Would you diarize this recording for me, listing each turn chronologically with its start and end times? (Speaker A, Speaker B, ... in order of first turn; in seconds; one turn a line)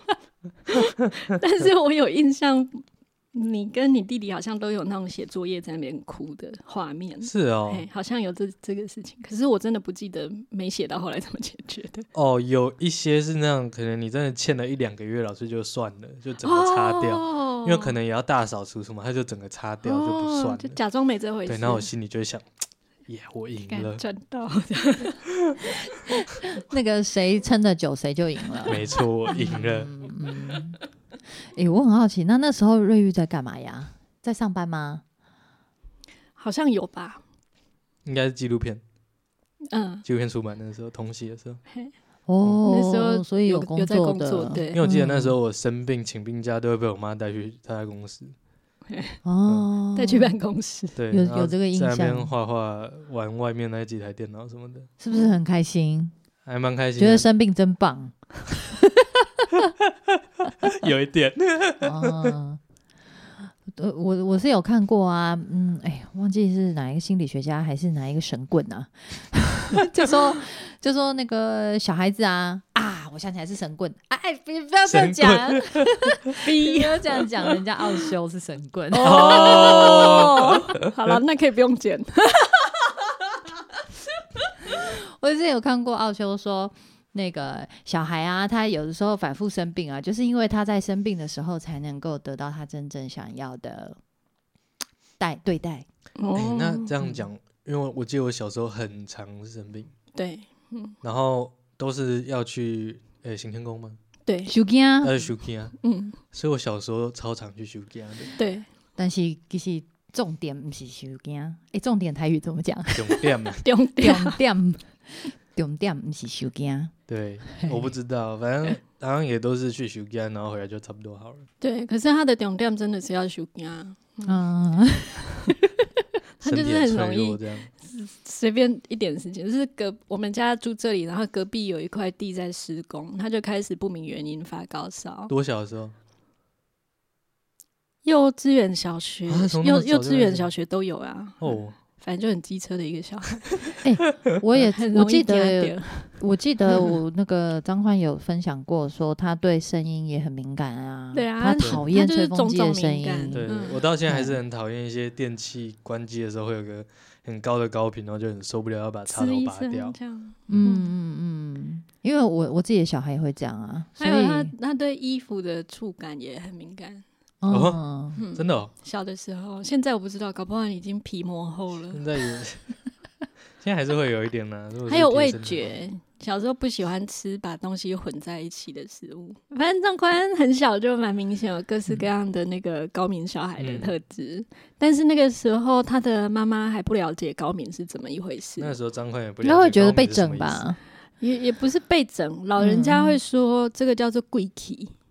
Speaker A: 0.7-12.1
Speaker B: 7.2-7.8
Speaker B: 12.1-20.8
Speaker A: 16.4-17.9
Speaker A: 19.8-21.9
Speaker B: 21.4-22.4
Speaker B: 23.1-24.0
Speaker A: 23.7-25.3
Speaker C: 26.1-30.8
Speaker B: 28.7-29.9
Speaker C: 31.5-35.0
Speaker A: 36.4-37.2
Speaker B: 38.0-38.8
Speaker A: 39.7-40.0
Speaker B: 40.0-41.6
Speaker C: 42.3-45.4
Speaker A: 42.6-44.8
Speaker B: 44.7-48.3
Speaker A: 48.9-49.2
Speaker C: 49.2-50.3
Speaker A: 49.9-51.0
Speaker B: 51.0-54.9
Speaker C: 51.1-52.3
Speaker C: 55.0-56.1
Speaker B: 56.4-57.2
Speaker C: 57.0-59.6
Speaker B: 60.6-62.4
Speaker C: 61.8-62.6
Speaker C: 63.4-80.5
Speaker B: 74.8-76.3
Speaker A: 76.4-77.2
Speaker A: 78.9-82.9
Speaker B: 79.0-81.2
Speaker C: 84.7-94.0
Speaker C: 95.2-95.8
Speaker A: 96.2-96.9
Speaker B: 96.3-99.9
Speaker A: 100.1-101.0
Speaker B: 101.0-104.0
Speaker A: 104.2-104.5
Speaker C: 104.5-105.2
Speaker B: 105.0-105.8
Speaker A: 105.8-106.2
Speaker B: 106.3-108.3
Speaker A: 108.4-108.7
Speaker C: 109.0-113.3
Speaker B: 112.9-113.6
Speaker A: 113.6-114.4
Speaker C: 114.0-116.9
Speaker B: 117.1-121.5
Speaker C: 117.5-117.9
Speaker A: 121.6-124.4
Speaker C: 124.2-125.5
Speaker A: 126.4-135.3
Speaker B: 126.4-127.7
Speaker B: 135.3-135.9
Speaker A: 138.0-143.8
Speaker B: 139.3-140.5
Speaker B: 141.4-141.8
Speaker C: 143.8-153.5
Speaker A: 144.6-146.9
Speaker A: 151.1-153.8
Speaker B: 151.6-151.8
Speaker B: 153.3-159.9
Speaker C: 154.1-154.4
Speaker A: 159.1-160.9
Speaker C: 160.5-164.5
Speaker A: 164.0-167.0
Speaker C: 167.4-168.2
Speaker B: 167.5-168.7
Speaker A: 168.2-172.0
Speaker B: 171.9-172.7
Speaker B: 173.6-175.7
Speaker A: 174.9-188.8
Speaker B: 183.6-183.9
Speaker B: 188.6-190.6
Speaker C: 189.4-190.8
Speaker A: 191.2-194.9
Speaker C: 192.6-193.2